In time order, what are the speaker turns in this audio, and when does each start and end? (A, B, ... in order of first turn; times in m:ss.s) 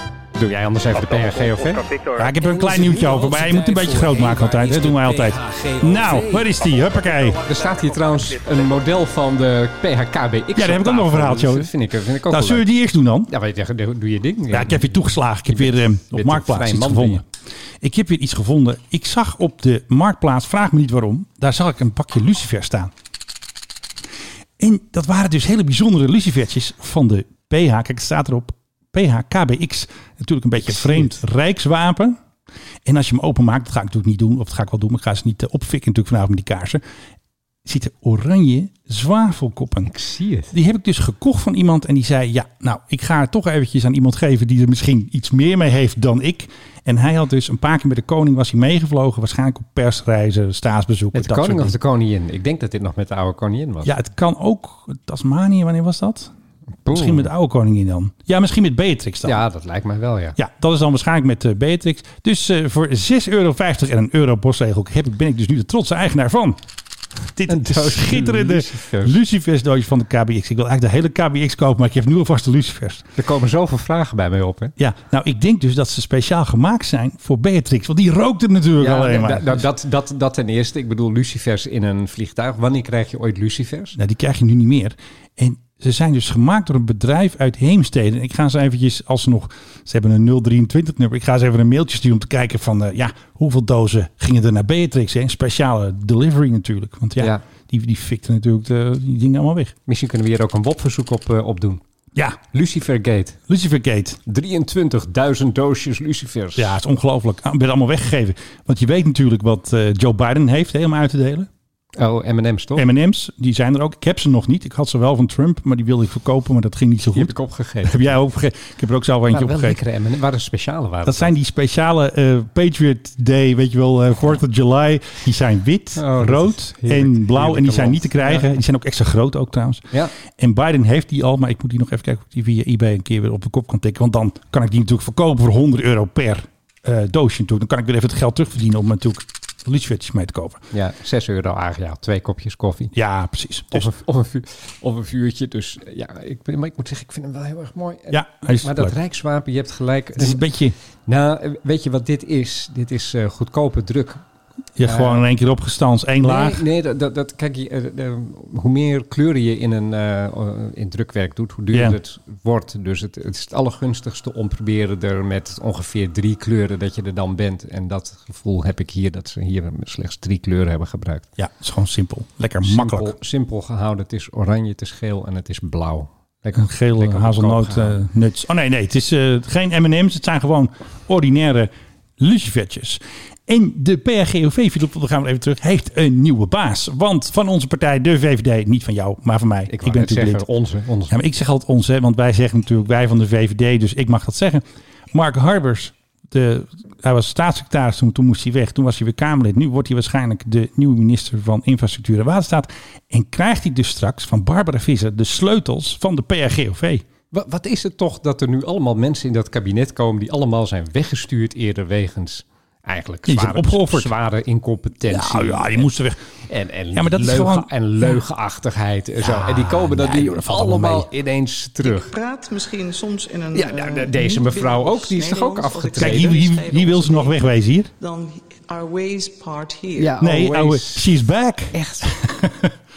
0:00.4-0:06.6 A
0:02.1-0:07.4 B
0:07.3-0:12.7 A
0:10.6-0:11.7 B
0:12.3-0:13.3 B
0:13.3-0:17.2 A
0:14.5-0:17.2 B
0:17.8-0:22.9 B
0:24.6-0:32.2 B
0:30.7-0:31.2 A
0:32.8-0:36.8 B
0:37.6-0:39.9 B
0:39.8-0:40.5 A
0:40.5-0:51.7 B
0:51.1-0:53.9 A
0:53.8-0:56.3 B
0:56.8-0:57.3 A
0:56.9-0:59.4 B
0:59.2-1:00.4 A
1:00.4-1:06.6 B
1:07.3-1:13.1 B
1:07.5-1:09.2 A
1:13.2-1:14.7 A
1:14.8-1:19.6 B
1:18.8-1:24.0 A
1:24.0-1:39.7 B
1:39.9-1:41.8 A
1:42.4-1:43.4 A
1:43.5-1:44.2 B
1:44.2-1:46.8 A
1:46.6-1:51.5 B
1:51.9-1:52.9 A
1:52.8-1:57.3 B
1:57.1-1:58.1 A
1:57.8-1:59.8 B
1:59.3-2:01.3 A
2:01.0-2:20.6 B
2:06.0-2:08.4 A
2:20.7-2:22.9 A
2:22.9-2:23.9 B
2:23.7-2:30.4 A
2:28.1-2:28.9 B
2:30.2-2:30.7 B
2:31.0-2:34.2 A
2:34.8-2:36.6 B
2:34.8-2:35.2 A
2:36.2-2:51.3 A
2:51.4-2:53.1 B
2:52.6-2:58.0 A
2:56.6-3:10.4 B
3:09.7-3:11.1 A
3:11.1-3:27.0 B
3:27.3-3:35.9 A
3:33.3-3:34.1 B
3:35.1-3:36.2 B
3:36.5-3:42.1 A
3:36.9-3:38.1 B
3:39.2-3:41.1 B
3:41.8-3:47.4 C
3:43.5-3:46.4 A
3:46.0-3:47.9 B
3:48.0-3:50.2 C
3:50.0-3:51.1 A
3:50.2-3:52.7 B
3:51.7-3:52.1 A